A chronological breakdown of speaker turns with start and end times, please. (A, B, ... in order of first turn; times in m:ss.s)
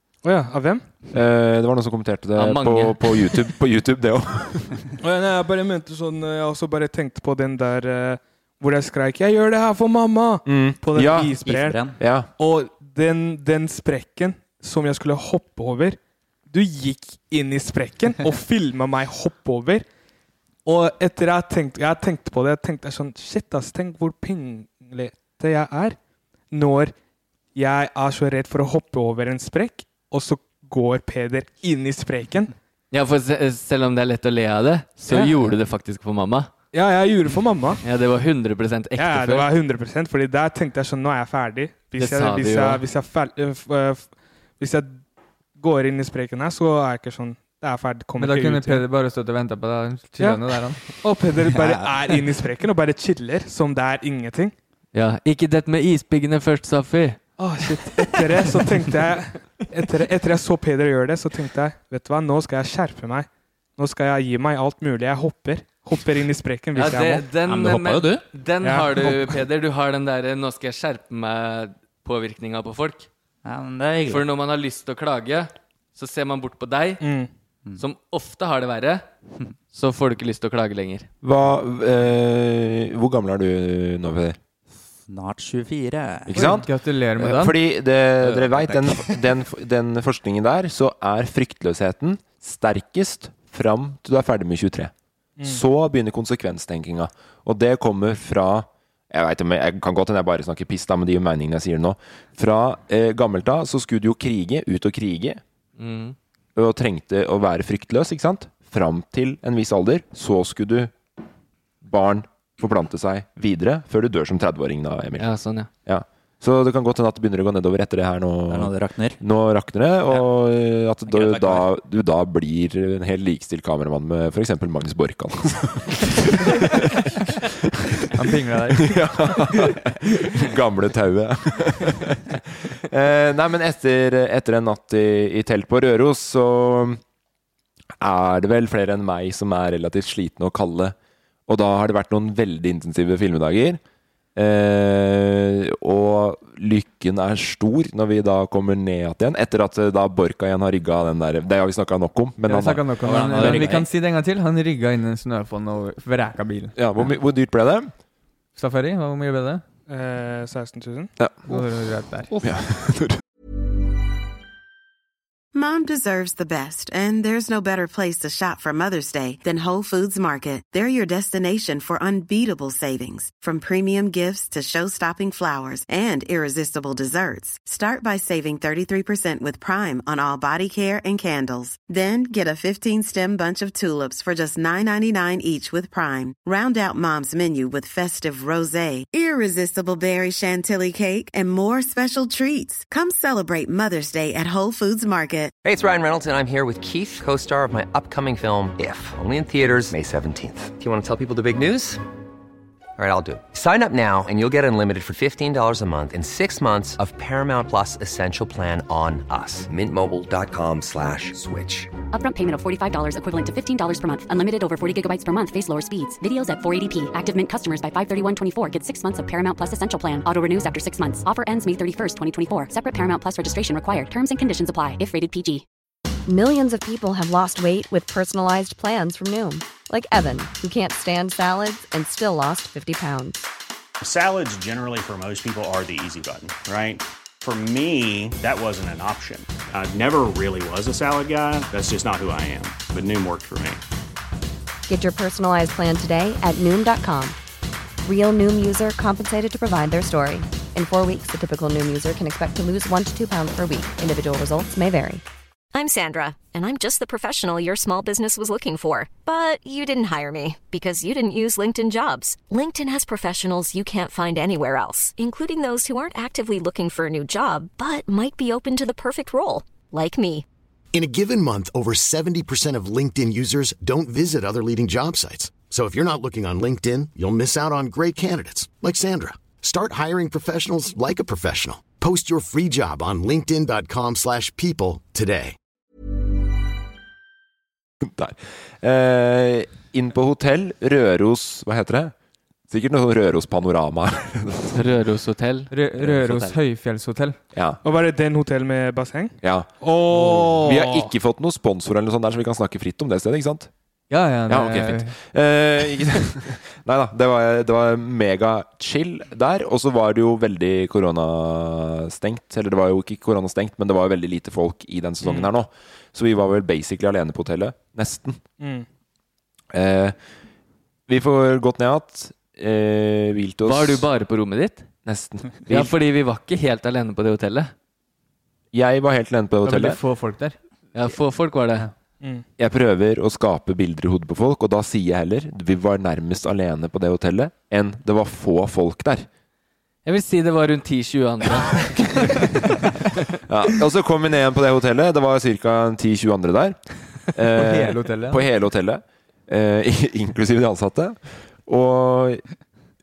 0:00.2-0:00.9 A
0:01.1-0:04.8 B
0:02.4-0:03.4 C
0:05.0-0:11.8 A
0:10.4-0:11.3 B
0:11.4-0:12.0 D
0:12.0-0:12.3 B
0:12.4-0:19.8 A
0:20.6-0:26.0 A
0:26.5-0:26.9 A
0:27.5-0:32.5 A
0:32.9-0:36.5 C
0:35.1-0:35.5 A
0:36.7-0:37.8 A
0:37.8-0:39.5 C
0:39.0-0:45.0 A
0:42.0-0:42.8 C
0:45.6-0:48.8 A
0:48.2-0:50.8 E
0:50.2-0:50.4 A
0:51.0-0:54.5 A
0:54.9-0:57.2 C
0:57.4-1:07.3 A
1:06.7-1:13.1 C
1:07.4-1:08.2 D
1:08.6-1:09.4 A
1:13.4-1:14.2 D
1:14.1-1:17.0 C
1:17.0-1:17.3 A
1:17.8-1:19.0 C
1:19.7-1:21.1 C
1:21.2-1:24.4 B
1:25.0-1:26.6 D
1:26.3-1:34.9 B
1:26.3-1:27.6 E
1:28.2-1:29.2 D
1:35.4-1:45.4 B
1:45.8-1:46.2 C
1:46.6-1:50.9 B
1:51.8-1:55.3 B
1:55.2-1:55.7 C
1:55.8-2:07.2 B
1:58.5-1:59.2 D
2:01.0-2:01.7 D
2:08.1-2:09.5 E
2:08.8-2:17.0 B
2:18.0-2:21.0 B
2:21.5-2:23.8 B
2:24.4-2:32.8 B
2:32.5-2:36.7 E
2:33.0-2:33.9 D
2:33.4-2:33.7 B
2:36.8-2:37.9 B
2:38.6-2:39.6 E
2:39.9-2:41.1 A
2:41.2-2:41.6 B
2:41.5-2:42.3 E
2:42.3-2:43.2 B
2:45.5-3:15.5 F
3:15.6-3:22.0 G
3:23.0-3:31.9 G
3:32.1-3:45.6 H
3:46.3-3:53.4 I
3:54.0-4:03.8 J
4:04.9-4:07.4 I
4:08.0-4:15.2 I
4:15.7-4:30.4 K
4:30.9-4:45.6 L
4:48.0-4:52.1 B
4:52.7-4:54.8 B
4:54.7-4:55.7 C
4:55.7-4:57.4 E
4:56.0-4:56.6 D
4:57.5-4:57.8 B
4:57.8-5:01.1 A
4:59.4-5:03.7 B
5:04.1-5:05.1 E
5:04.5-5:18.4 B
5:18.6-5:18.8 A
5:19.7-5:20.2 B
5:21.1-5:24.1 B
5:23.6-5:24.9 C
5:25.0-5:25.9 B
5:25.6-5:27.7 C
5:28.7-5:30.0 B
5:29.6-5:30.6 E
5:30.9-5:31.9 C
5:32.6-5:39.3 B
5:40.0-5:43.2 C
5:43.5-5:46.8 B
5:47.3-5:52.4 B
5:47.5-5:48.4 E